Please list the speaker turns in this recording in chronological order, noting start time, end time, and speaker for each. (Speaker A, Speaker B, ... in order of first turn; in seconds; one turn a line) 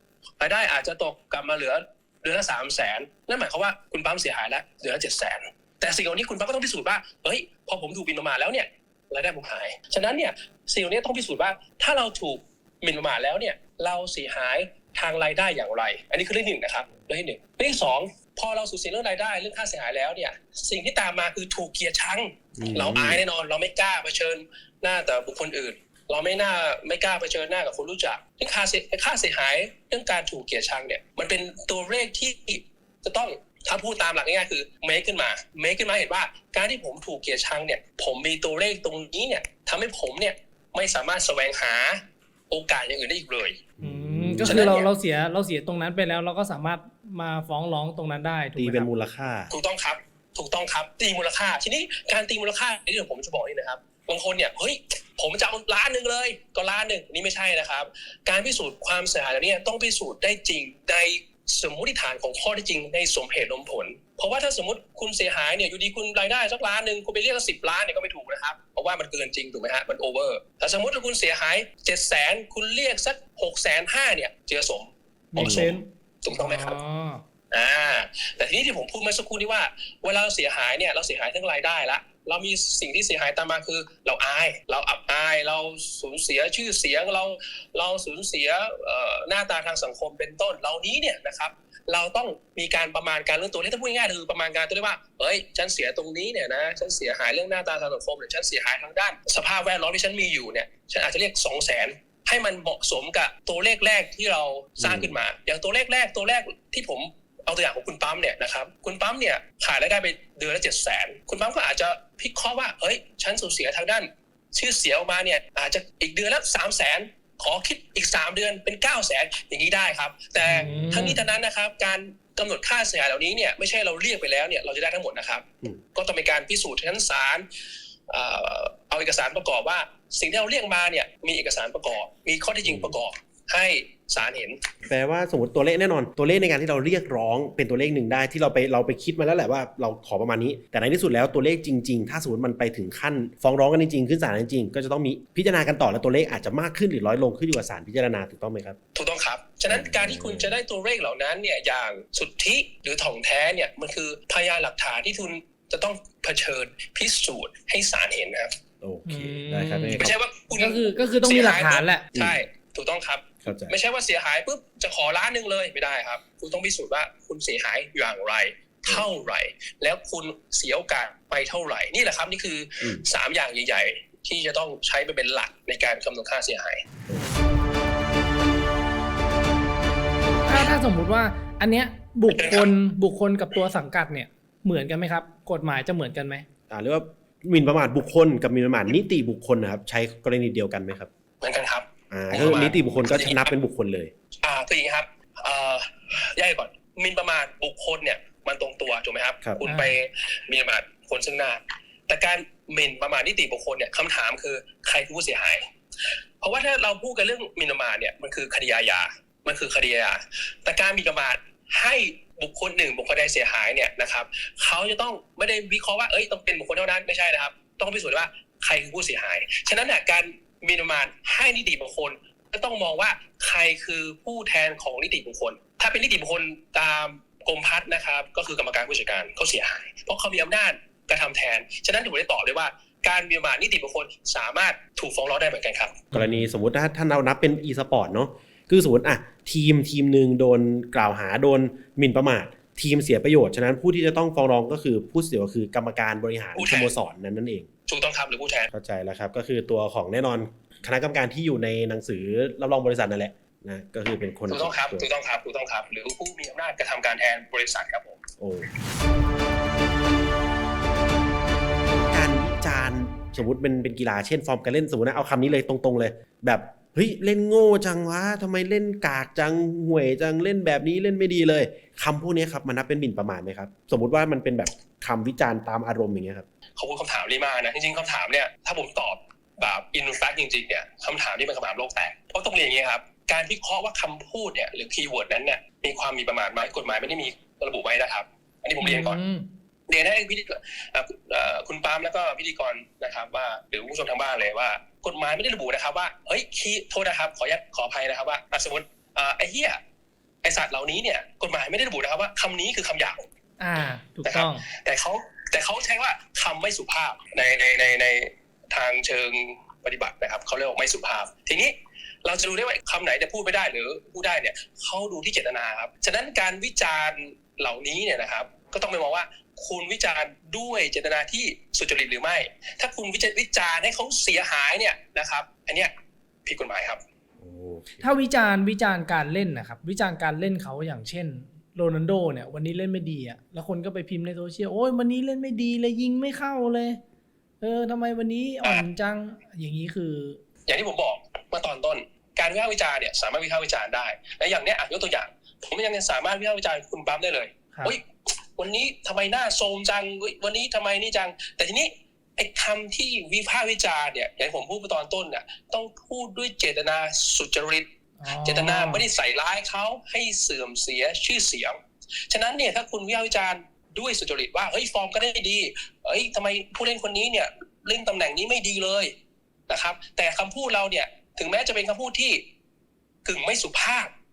Speaker A: 0.4-43.6
Speaker B: 22.6-23.2
Speaker B: 43.8-44.6
Speaker C: 43.8-48.9
Speaker A: 44.4-44.9
Speaker B: 48.5-49.5
Speaker A: 49.5-76.8
Speaker C: 75.3-77.2
Speaker B: 75.3-75.8
Speaker A: 77.5-127.4
Speaker B: 104.8-105.1
Speaker C: 120.4-121.2
Speaker B: 120.7-121.0
Speaker A: 128.1-134.6
Speaker B: 132.6-132.9
Speaker B: 134.8-148.8
Speaker A: 148.9-158.6
Speaker B: 149.7-150.5
Speaker B: 158.8-160.1
Speaker C: 159.1-162.1
Speaker A: 160.0-176.8
Speaker B: 162.1-162.4
Speaker B: 163.4-163.8
Speaker C: 180.4-186.4
Speaker A: 182.3-182.7
Speaker B: 186.7-191.1
Speaker A: 191.4-193.5
Speaker B: 192.1-194.1
Speaker A: 194.4-205.7
Speaker C: 199.6-200.0
Speaker A: 206.4-236.1
Speaker B: 236.1-247.7
Speaker A: 246.6-246.9
Speaker A: 247.9-248.7
Speaker B: 248.7-255.1
Speaker A: 254.5-258.2
Speaker B: 258.4-258.7
Speaker B: 262.1-276.4
Speaker A: 276.8-289.2
Speaker C: 288.8-289.4
Speaker A: 289.9-299.8
Speaker A: 300.4-303.2
Speaker C: 303.6-304.6
Speaker A: 304.2-325.9
Speaker A: 326.4-327.0
Speaker B: 327.4-328.1
Speaker C: 328.0-337.0
Speaker C: 337.6-340.4
Speaker A: 340.6-357.9
Speaker C: 358.2-359.1
Speaker A: 358.4-369.1
Speaker A: 369.7-372.4
Speaker A: 373.2-374.1